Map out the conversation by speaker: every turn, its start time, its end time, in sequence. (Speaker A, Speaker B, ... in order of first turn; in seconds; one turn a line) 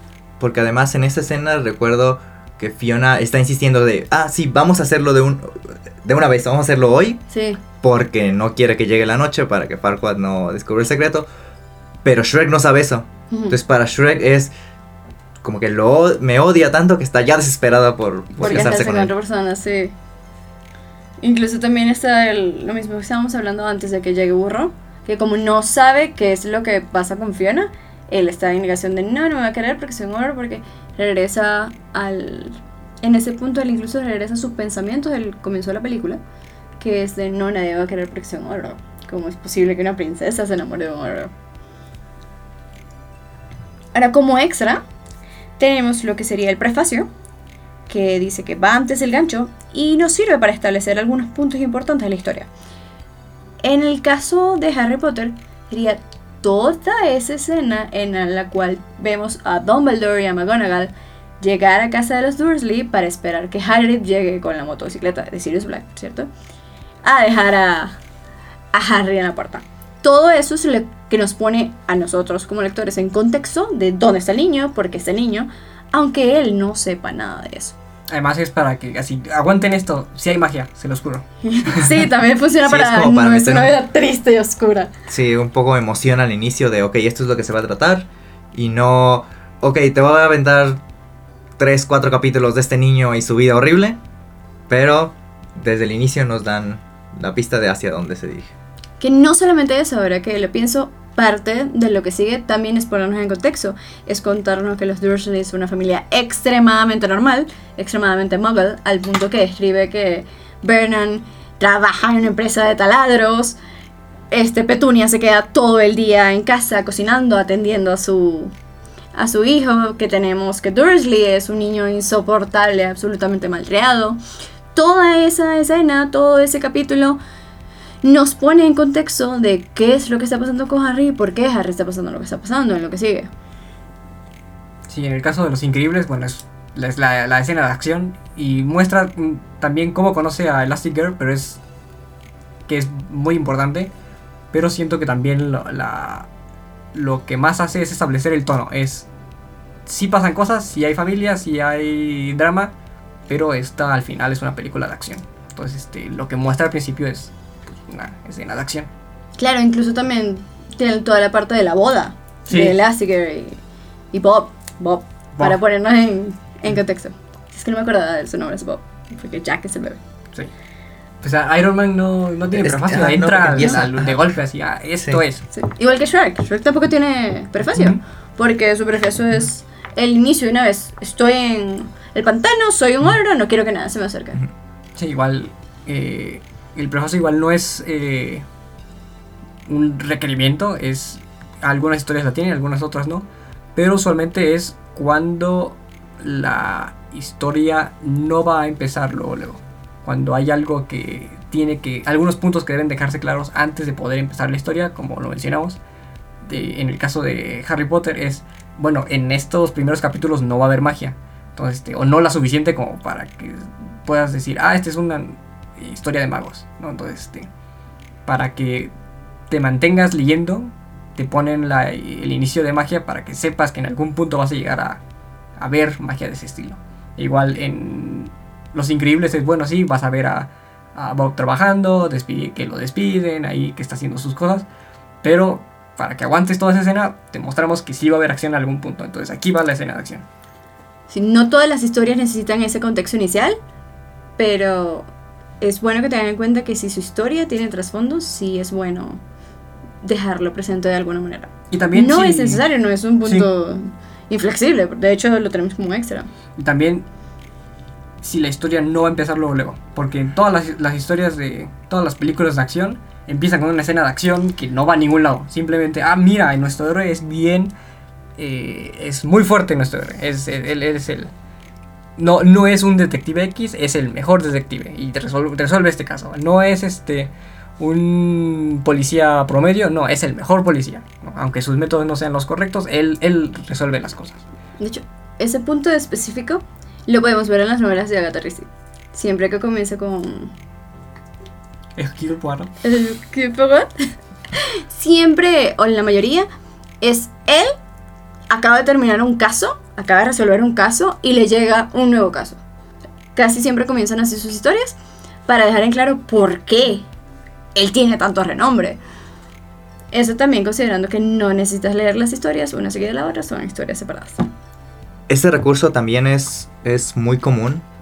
Speaker A: 0.4-7.2
Speaker B: 7.3-7.6
Speaker A: 7.8-11.3
Speaker A: 12.0-14.5
Speaker B: 13.3-13.6
Speaker A: 15.4-19.1
Speaker C: 18.4-18.7
Speaker B: 18.4-19.9
Speaker B: 21.2-36.2
Speaker B: 36.8-41.3
Speaker B: 43.9-44.8
Speaker B: 45.6-47.1
Speaker B: 47.9-52.5
Speaker B: 53.6-66.3
Speaker B: 67.0-68.0
Speaker B: 68.7-77.8
Speaker C: 78.1-82.0
Speaker B: 81.5-84.9
Speaker A: 82.6-83.8
Speaker A: 85.1-90.8
Speaker A: 91.6-94.0
Speaker A: 94.7-98.5
Speaker B: 99.0-113.6
Speaker B: 114.3-118.5
Speaker B: 119.1-124.2
Speaker B: 124.8-127.2
Speaker B: 128.0-133.3
Speaker C: 134.9-141.6
Speaker C: 142.7-143.9
Speaker C: 144.5-146.3
Speaker C: 146.9-149.1
Speaker C: 149.9-152.7
Speaker C: 153.3-157.3
Speaker C: 157.9-158.9
Speaker B: 159.4-163.6
Speaker C: 162.5-162.8
Speaker B: 164.1-170.0
Speaker C: 171.2-175.5
Speaker A: 172.5-174.2
Speaker B: 175.5-184.4
Speaker C: 177.6-178.0
Speaker C: 185.0-188.4
Speaker C: 189.7-205.8
Speaker C: 206.4-217.5
Speaker C: 218.3-218.9
Speaker C: 219.5-225.0
Speaker C: 225.6-234.7
Speaker C: 235.2-240.2
Speaker B: 241.1-243.6
Speaker B: 244.4-245.1
Speaker B: 245.6-249.2
Speaker B: 250.0-256.3
Speaker C: 251.7-252.6
Speaker C: 253.2-253.5
Speaker C: 256.6-257.1
Speaker C: 258.2-267.7
Speaker C: 268.4-271.3
Speaker C: 272.2-284.4
Speaker B: 284.8-290.5
Speaker C: 292.0-292.7
Speaker B: 292.8-293.9
Speaker B: 294.6-296.5
Speaker B: 297.0-297.8
Speaker B: 298.5-302.6
Speaker B: 303.4-305.0
Speaker B: 305.5-307.1
Speaker B: 307.8-309.0
Speaker B: 310.1-314.5
Speaker A: 315.3-317.9